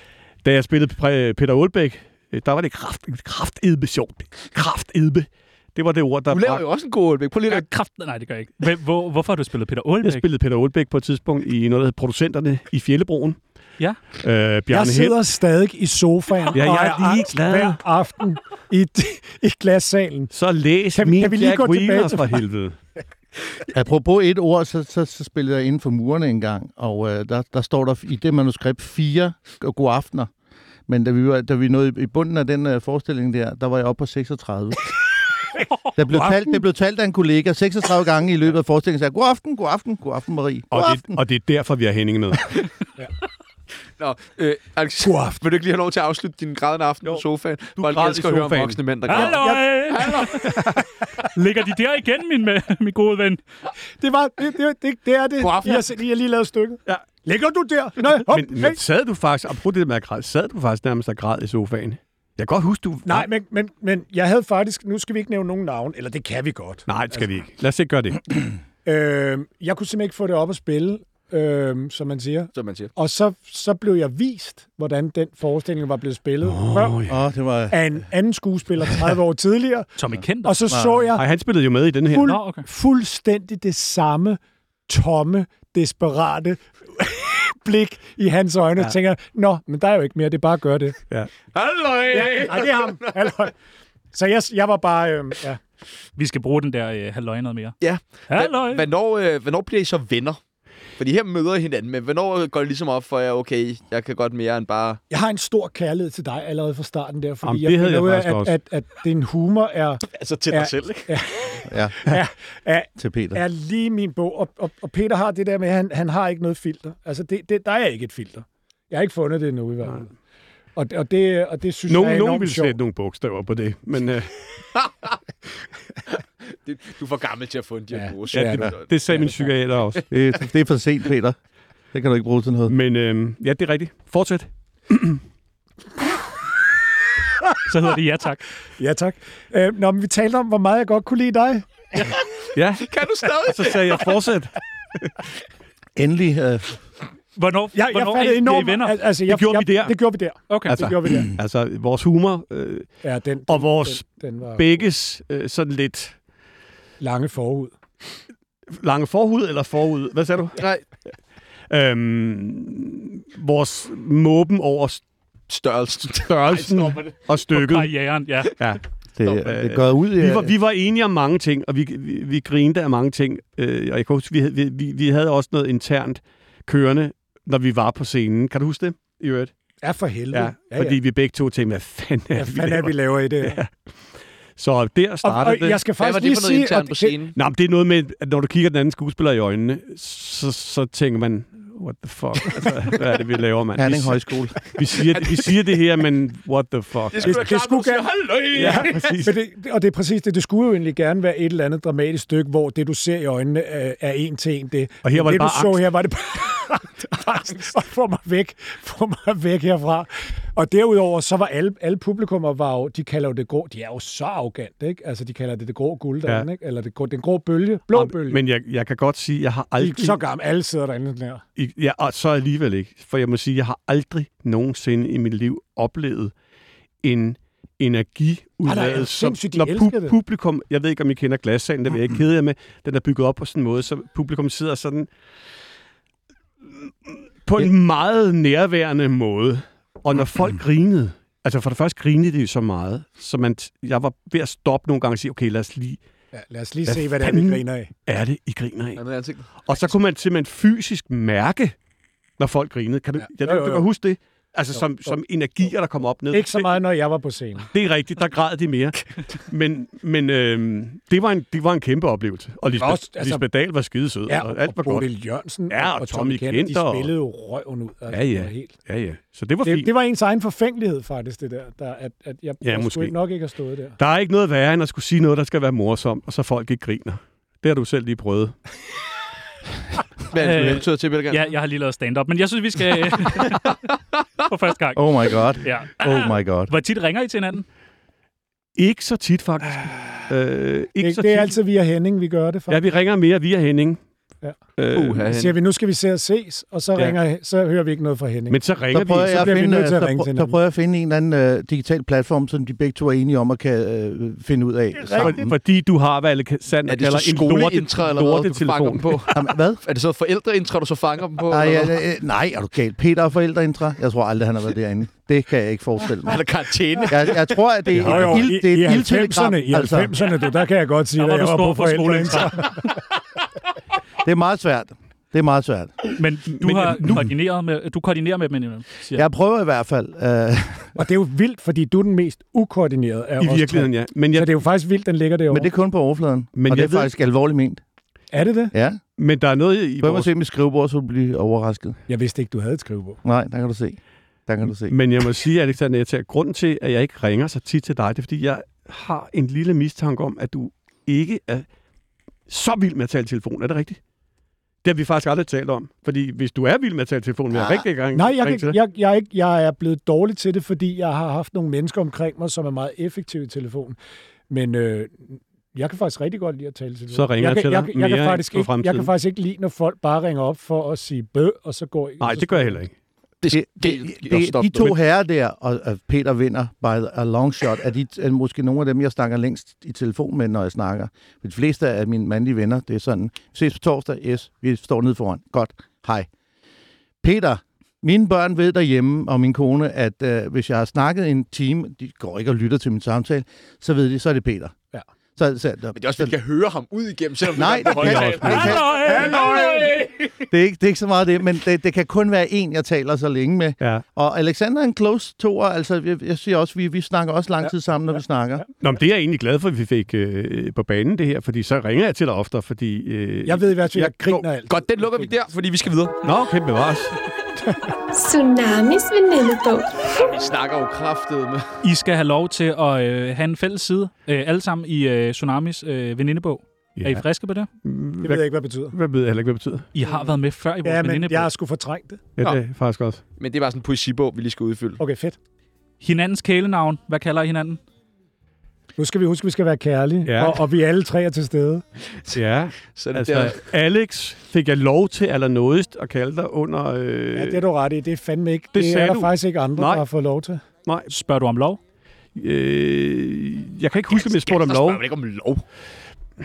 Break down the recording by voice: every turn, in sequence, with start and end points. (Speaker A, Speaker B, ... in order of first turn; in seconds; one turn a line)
Speaker A: 0.4-6.6
Speaker B: 6.3-7.6
Speaker C: 7.5-10.2
Speaker A: 10.0-13.4
Speaker A: 14.2-15.2
Speaker D: 14.7-20.3
Speaker A: 16.5-17.8
Speaker A: 20.3-22.8
Speaker D: 20.9-22.4
Speaker E: 23.7-30.3
Speaker E: 30.9-34.9
Speaker E: 36.0-41.2
Speaker D: 36.1-36.6
Speaker A: 40.7-42.5
Speaker B: 44.0-50.6
Speaker D: 45.0-45.4
Speaker A: 47.8-48.8
Speaker D: 49.1-49.9
Speaker C: 49.1-50.4
Speaker C: 51.2-53.4
Speaker D: 54.0-58.8
Speaker B: 55.4-55.9
Speaker A: 58.2-63.3
Speaker D: 63.0-67.3
Speaker A: 66.9-68.3
Speaker D: 68.8-77.0
Speaker B: 72.5-72.9
Speaker A: 76.4-77.2
Speaker E: 77.1-77.8
Speaker D: 77.7-79.9
Speaker C: 80.0-80.6
Speaker D: 80.4-81.2
Speaker E: 80.7-81.0
Speaker A: 81.1-82.4
Speaker D: 82.1-91.0
Speaker C: 82.2-82.6
Speaker B: 91.5-93.1
Speaker D: 92.1-93.5
Speaker D: 94.1-95.6
Speaker C: 96.2-97.8
Speaker B: 97.8-100.4
Speaker C: 98.3-98.9
Speaker B: 101.0-105.0
Speaker D: 105.1-120.1
Speaker A: 107.4-108.5
Speaker B: 110.0-111.1
Speaker E: 111.7-112.0
Speaker E: 113.0-113.4
Speaker D: 120.8-122.8
Speaker A: 121.9-124.3
Speaker B: 124.8-125.1
Speaker B: 126.5-128.8
Speaker D: 127.9-129.3
Speaker A: 128.3-130.1
Speaker E: 130.1-131.3
Speaker E: 131.9-132.7
Speaker A: 132.7-135.2
Speaker C: 137.6-138.4
Speaker D: 138.8-141.7
Speaker A: 142.5-144.5
Speaker B: 142.8-144.0
Speaker E: 145.9-146.8
Speaker C: 147.3-149.0
Speaker D: 147.7-151.3
Speaker A: 149.3-150.0
Speaker C: 150.5-150.8
Speaker A: 150.7-152.9
Speaker D: 153.0-154.7
Speaker A: 153.5-156.2
Speaker D: 157.0-157.7
Speaker A: 158.7-160.6
Speaker B: 160.6-160.8
Speaker A: 161.7-165.0
Speaker B: 165.5-167.2
Speaker A: 166.2-167.9
Speaker C: 167.5-168.6
Speaker A: 168.6-179.5
Speaker E: 169.2-170.5
Speaker D: 179.8-180.9
Speaker A: 180.3-183.7
Speaker D: 182.3-183.6
Speaker A: 184.6-185.8
Speaker D: 185.2-187.2
Speaker B: 185.9-187.3
Speaker A: 187.3-194.2
Speaker E: 193.8-194.6
Speaker A: 194.7-197.4
Speaker B: 194.9-195.5
Speaker B: 197.1-199.2
Speaker D: 197.2-218.4
Speaker A: 198.5-199.3
Speaker A: 205.0-205.8
Speaker A: 217.9-220.2
Speaker D: 219.8-221.4
Speaker A: 221.6-226.3
Speaker A: 227.0-235.1
Speaker D: 228.6-230.2
Speaker A: 236.7-246.0
Speaker D: 246.3-247.9
Speaker A: 246.9-249.0
Speaker B: 248.9-249.4
Speaker A: 249.6-251.8
Speaker A: 252.4-256.8
Speaker D: 253.2-253.9
Speaker D: 254.8-255.2
Speaker D: 256.3-257.7
Speaker A: 257.7-265.1
Speaker D: 262.7-263.4
Speaker D: 264.3-268.7
Speaker A: 265.7-267.1
Speaker A: 268.1-269.9
Speaker D: 269.6-274.0
Speaker A: 272.6-273.1
Speaker A: 274.0-278.6
Speaker B: 280.3-281.4
Speaker C: 280.4-283.8
Speaker B: 283.6-284.4
Speaker C: 284.4-287.6
Speaker E: 284.9-286.7
Speaker A: 288.8-291.6
Speaker D: 291.0-292.8
Speaker A: 292.7-294.0
Speaker A: 294.8-295.3
Speaker B: 294.9-295.6
Speaker D: 295.3-298.6
Speaker A: 298.5-299.7
Speaker E: 298.9-305.5
Speaker D: 299.2-300.5
Speaker D: 305.0-305.4
Speaker A: 305.1-309.3
Speaker B: 306.9-312.0
Speaker E: 309.3-309.8
Speaker E: 311.5-316.4
Speaker B: 316.2-317.6
Speaker E: 317.1-320.1
Speaker A: 317.9-318.4
Speaker D: 317.9-322.9
Speaker C: 321.2-322.9
Speaker E: 324.2-326.0
Speaker C: 326.2-329.2
Speaker A: 326.5-327.3
Speaker E: 329.1-330.9
Speaker D: 330.9-335.7
Speaker A: 333.4-334.5
Speaker E: 335.5-337.8
Speaker A: 336.5-337.1
Speaker D: 338.3-338.7
Speaker E: 338.7-339.0
Speaker A: 339.2-340.3
Speaker E: 340.0-342.0
Speaker D: 342.1-343.2
Speaker E: 343.2-345.0
Speaker A: 344.7-351.6
Speaker A: 352.5-354.0
Speaker A: 354.8-358.8
Speaker D: 358.1-364.0
Speaker D: 364.5-372.8
Speaker A: 367.1-369.1
Speaker A: 372.2-372.9
Speaker B: 373.4-374.9
Speaker E: 373.5-386.3
Speaker E: 387.2-394.7
Speaker E: 395.4-396.3
Speaker B: 395.9-400.4
Speaker E: 397.5-399.4
Speaker A: 397.9-398.8
Speaker C: 398.4-400.0
Speaker D: 399.0-399.9
Speaker E: 400.5-408.6
Speaker A: 408.8-414.5
Speaker D: 413.4-415.3
Speaker B: 414.7-416.2
Speaker A: 416.2-417.1
Speaker F: 418.1-420.1
Speaker B: 420.1-421.6
Speaker C: 421.8-427.7
Speaker A: 427.0-427.2
Speaker A: 427.8-429.9
Speaker D: 428.2-428.9
Speaker C: 429.9-431.5
Speaker D: 430.0-432.2
Speaker A: 432.4-433.2
Speaker B: 433.4-435.0
Speaker D: 435.0-435.4
Speaker C: 436.0-437.8
Speaker D: 439.0-441.8
Speaker A: 440.2-440.6
Speaker B: 442.0-443.6
Speaker A: 442.3-447.6
Speaker D: 447.3-450.6
Speaker A: 448.7-450.0
Speaker A: 450.8-451.1
Speaker C: 451.1-451.8
Speaker A: 452.3-455.1
Speaker B: 454.2-455.6